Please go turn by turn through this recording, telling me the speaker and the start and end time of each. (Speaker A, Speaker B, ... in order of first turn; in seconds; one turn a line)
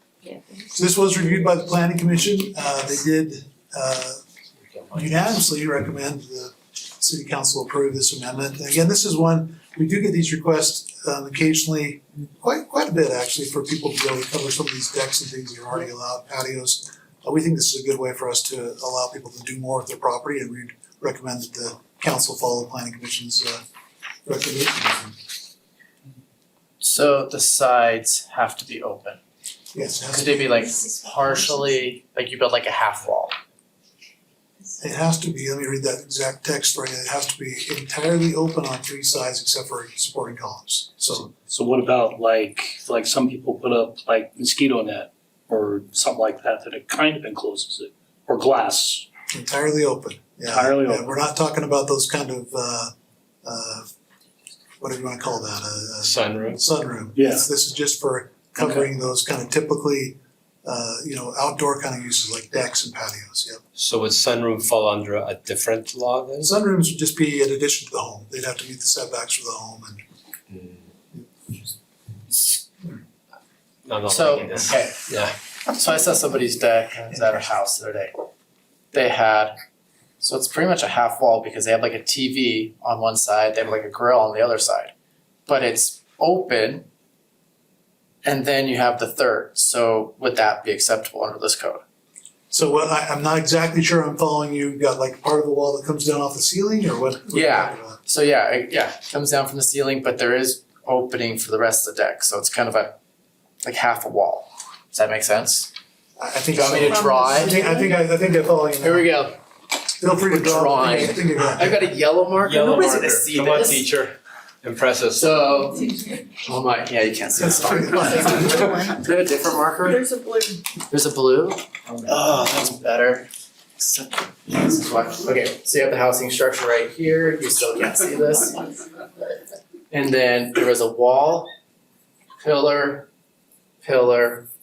Speaker A: 0.7-4.2
Speaker A: 4.9-23.6
Speaker A: 24.3-25.2
Speaker B: 26.8-29.2
Speaker A: 29.7-30.7
Speaker B: 30.1-33.3
Speaker A: 34.8-41.3
Speaker C: 41.3-49.1
Speaker A: 49.3-52.9
Speaker C: 50.5-51.1
Speaker A: 53.4-53.9
Speaker A: 54.8-63.6
Speaker D: 56.0-56.6
Speaker C: 57.1-57.5
Speaker C: 58.6-58.9
Speaker D: 63.8-66.5
Speaker A: 66.4-70.0
Speaker D: 70.5-70.8
Speaker D: 73.8-75.3
Speaker B: 74.1-75.2
Speaker B: 75.7-78.3
Speaker B: 78.9-79.6
Speaker B: 80.2-84.9
Speaker B: 85.5-86.9
Speaker B: 88.2-91.8
Speaker A: 92.5-98.0
Speaker B: 97.3-103.0
Speaker B: 103.6-105.7
Speaker A: 106.2-109.1
Speaker B: 106.5-107.9
Speaker B: 108.8-109.4
Speaker A: 110.0-111.8
Speaker B: 110.0-113.9
Speaker D: 112.3-115.4
Speaker B: 115.2-120.1
Speaker A: 117.4-119.0
Speaker B: 120.9-128.9
Speaker B: 129.9-131.5
Speaker B: 132.4-133.1
Speaker B: 133.8-134.5